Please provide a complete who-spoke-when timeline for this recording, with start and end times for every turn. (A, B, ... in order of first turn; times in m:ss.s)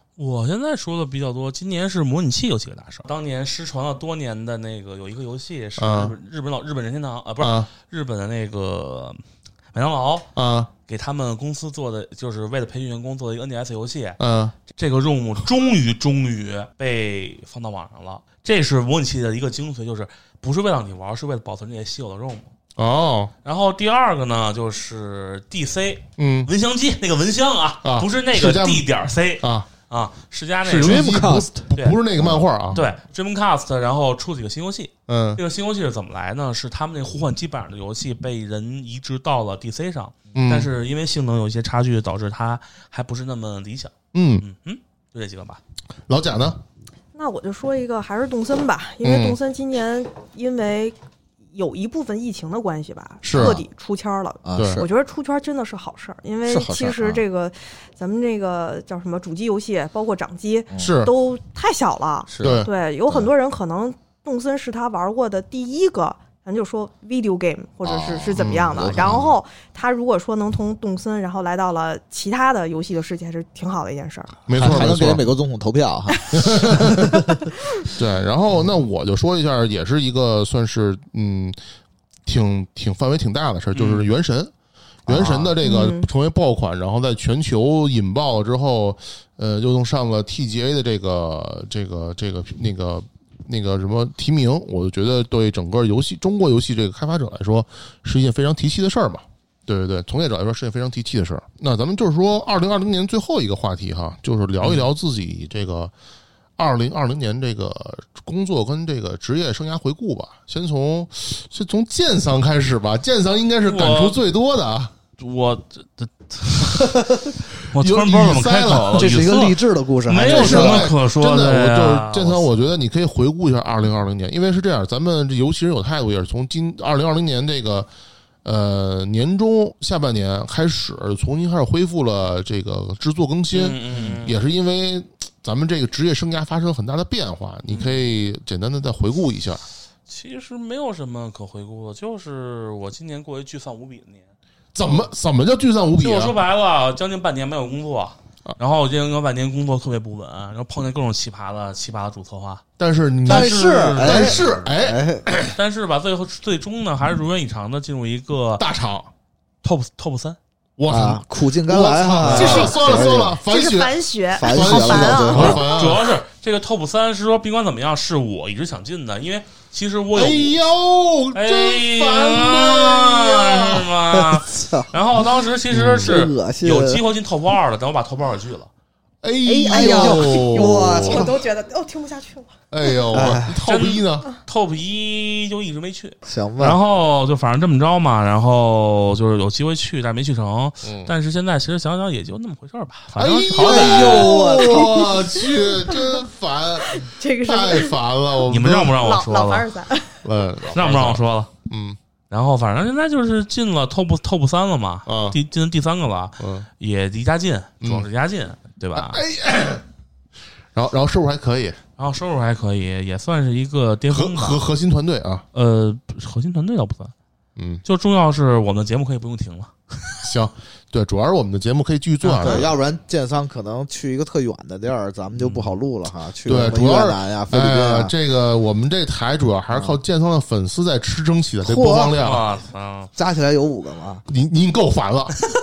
0:00.2-0:09.2 A
0:05.8-0:06.1 B
0:07.4-0:07.7 B
0:09.7-0:10.3 A
0:10.3-0:10.7 B
0:10.9-0:14.2 A
0:14.2-0:14.6 B
0:14.7-0:22.5 A
0:22.8-0:23.3 B
0:23.4-0:31.2 A
0:26.2-0:26.5 B
0:27.8-0:28.9 B
0:29.4-0:29.7 B
0:30.6-0:32.8 B
0:30.8-0:32.9 C
0:32.7-0:45.6 A
0:35.1-0:35.4 B
0:40.3-0:40.7 B
0:44.1-0:44.4 B
0:46.1-0:46.6 B
0:47.1-0:50.9 D
0:49.0-0:49.4 B
0:51.5-1:14.4 D
0:53.2-0:53.6 B
0:54.4-0:54.9 C
0:54.6-0:54.8 B
0:56.5-0:57.2 C
1:00.7-1:01.0 C
1:00.8-1:01.1 B
1:02.3-1:03.3 C
1:02.4-1:02.7 B
1:07.8-1:09.3 C
1:08.3-1:09.2 B
1:14.5-1:15.2 B
1:14.5-1:17.4 C
1:16.3-1:17.3 B
1:17.9-1:21.6 B
1:22.2-1:24.5 B
1:23.7-1:24.1 A
1:25.0-1:45.9 B
1:25.1-1:25.5 C
1:25.6-1:26.1 D
1:44.6-1:44.9 A
1:46.6-1:54.9 B
1:53.6-1:54.2 A
1:55.2-2:02.4 A
1:57.8-1:59.2 B
1:58.9-2:00.9 C
2:00.2-2:07.9 B
2:08.4-2:19.6 B
2:13.5-2:14.4 A
2:17.7-2:18.0 A
2:20.1-2:24.3 A
2:24.7-2:26.4 B
2:26.0-2:32.6 A
2:32.8-2:35.6 B
2:33.2-2:34.6 A
2:33.2-2:35.3 C
2:35.5-2:38.6 A
2:38.6-2:39.1 B
2:39.6-2:40.4 A
2:40.8-2:46.0 B
2:40.9-2:43.4 C
2:42.2-2:42.6 A
2:42.3-2:45.7 D
2:44.3-2:45.7 C
2:45.4-2:50.6 A
2:50.1-2:53.9 B
2:51.3-2:58.7 A
2:54.1-2:54.9 C
2:55.7-2:56.1 B
2:56.0-2:57.0 C
2:59.2-3:01.3 B
2:59.4-3:02.5 D
2:59.7-3:01.4 C
3:02.7-3:04.3 B
3:03.1-3:03.6 C
3:03.6-3:14.3 A
3:06.2-3:06.8 C
3:10.8-3:11.1 B
3:13.1-3:19.0 B
3:13.6-3:15.2 C
3:14.2-3:16.2 D
3:16.8-3:18.0 D
3:18.5-3:19.7 A
3:19.0-3:20.2 D
3:20.2-3:22.0 B
3:20.7-3:21.5 A
3:22.3-3:29.2 A
3:25.0-3:25.4 B
3:26.4-3:26.7 B
3:29.0-3:29.8 B
3:30.7-3:31.8 B
3:32.0-3:34.6 A
3:34.1-3:35.4 B
3:35.5-3:37.1 A
3:37.6-3:37.8 B
3:37.8-3:40.2 A
3:40.2-3:42.7 B
3:42.2-3:42.7 A
3:42.4-3:48.1 C
3:45.4-3:45.7 A
3:46.4-3:52.4 B
3:49.7-3:50.0 C
3:51.6-3:52.2 C
3:52.2-3:53.1 A
3:53.2-3:54.2 C
3:54.3-3:55.4 B